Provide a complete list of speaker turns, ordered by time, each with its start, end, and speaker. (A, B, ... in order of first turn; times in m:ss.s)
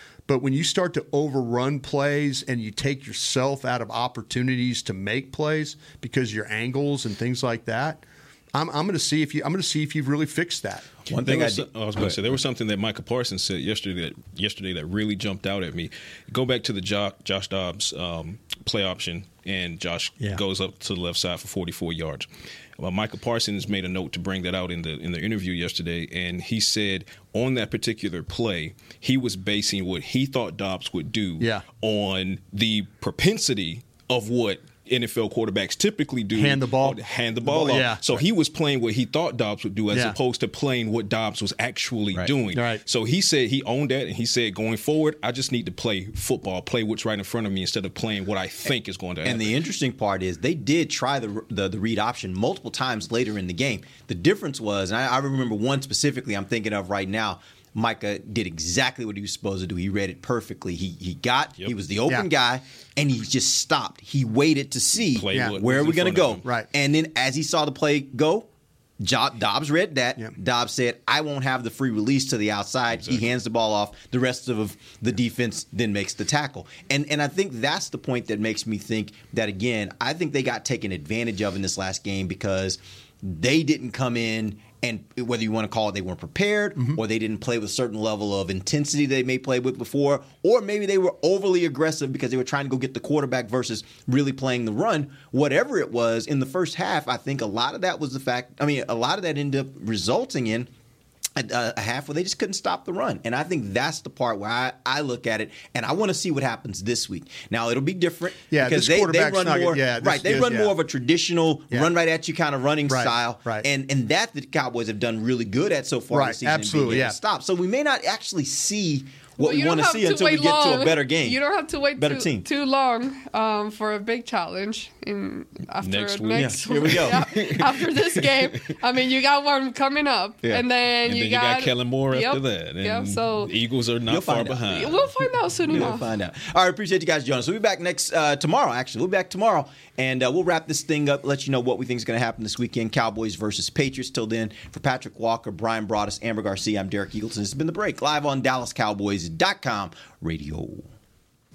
0:00.3-0:08.0 A
0:08.5-0:10.9 A
0:11.1-0:12.4 B
0:11.2-0:22.3 C
0:22.8-0:49.6 C
0:31.4-0:31.6 A
0:36.3-0:38.2 A
0:39.9-0:40.2 A
0:42.5-0:42.8 A
0:49.2-1:08.5 B
1:05.0-1:06.4 C
1:05.3-1:05.6 A
1:06.4-1:06.7 A
1:09.0-1:40.7 B
1:12.9-1:13.3 C
1:41.4-2:01.4 B
1:48.5-1:50.7 A
1:52.9-1:53.7 A
1:56.1-1:57.2 A
1:59.4-2:13.5 D
2:02.0-2:02.5 B
2:05.8-2:07.9 C
2:06.3-2:07.7 B
2:11.0-2:15.1 C
2:14.1-2:15.0 B
2:14.7-2:16.1 D
2:15.7-2:30.9 B
2:15.7-2:16.0 C